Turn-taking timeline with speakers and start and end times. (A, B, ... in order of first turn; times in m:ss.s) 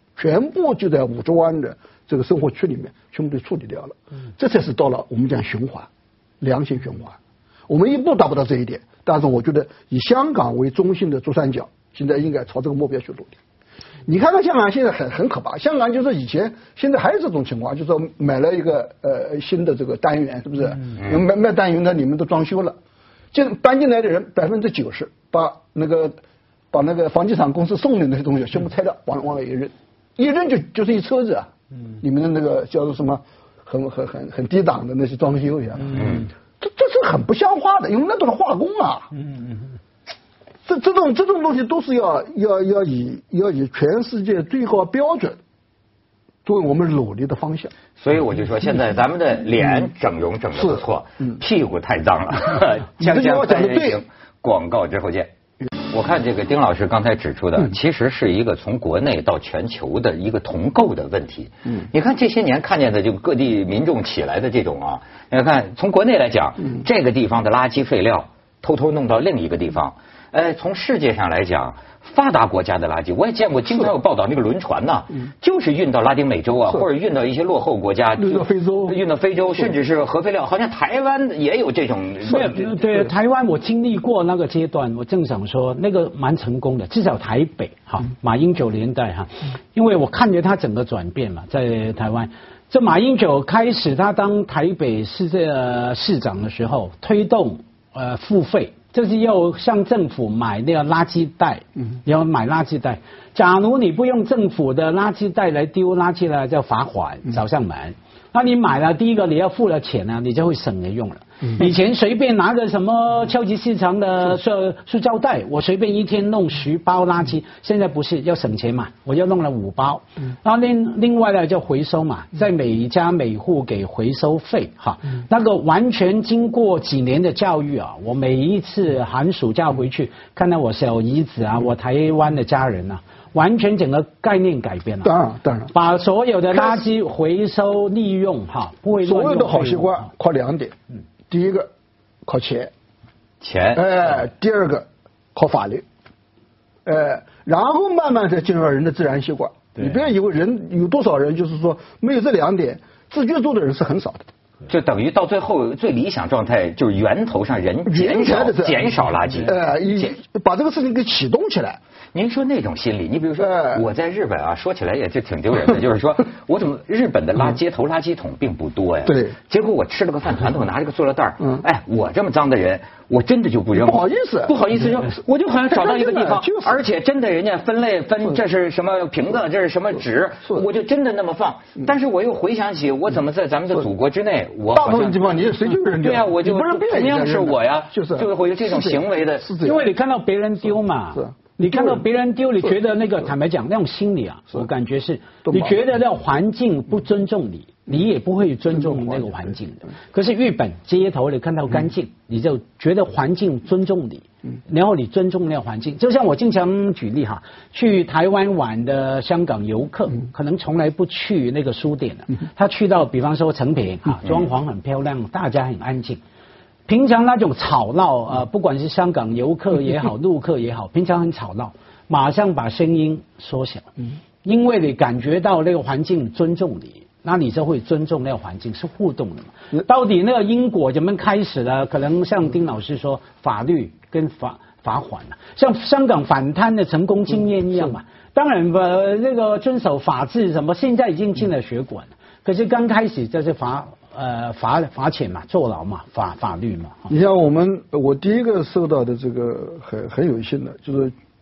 0:00.2-0:05.9 A
0:06.4-0:07.2 A
0:07.7-0:13.4 A
0:14.0-0:22.8 A
0:23.3-0:26.2 A
0:26.7-0:39.1 A
0:35.9-0:36.3 B
0:40.6-0:45.4 A
0:46.4-0:47.7 A
0:48.0-0:55.3 B
0:53.0-0:54.0 A
0:55.9-1:22.8 B
1:18.2-1:19.0 A
1:22.2-2:15.1 C
2:15.0-2:15.7 A
2:15.7-2:20.0 C
2:19.0-2:20.7 A
2:21.3-2:21.7 A
2:22.2-2:22.7 A
2:23.4-2:23.9 B
2:23.7-2:25.8 A
2:26.8-2:34.3 A
2:34.7-2:39.6 B
2:37.8-2:38.8 A
2:39.4-2:41.8 A
2:42.1-3:05.3 B
2:43.4-2:43.8 A
2:49.0-2:49.4 A
2:53.7-2:54.5 A
2:55.7-2:56.8 A
3:04.7-3:09.8 A
3:06.0-3:09.5 B
3:09.6-3:36.2 C
3:11.1-3:12.0 A
3:15.4-3:15.8 A
3:36.9-3:43.9 C
3:44.4-4:07.1 C
4:07.1-4:11.1 A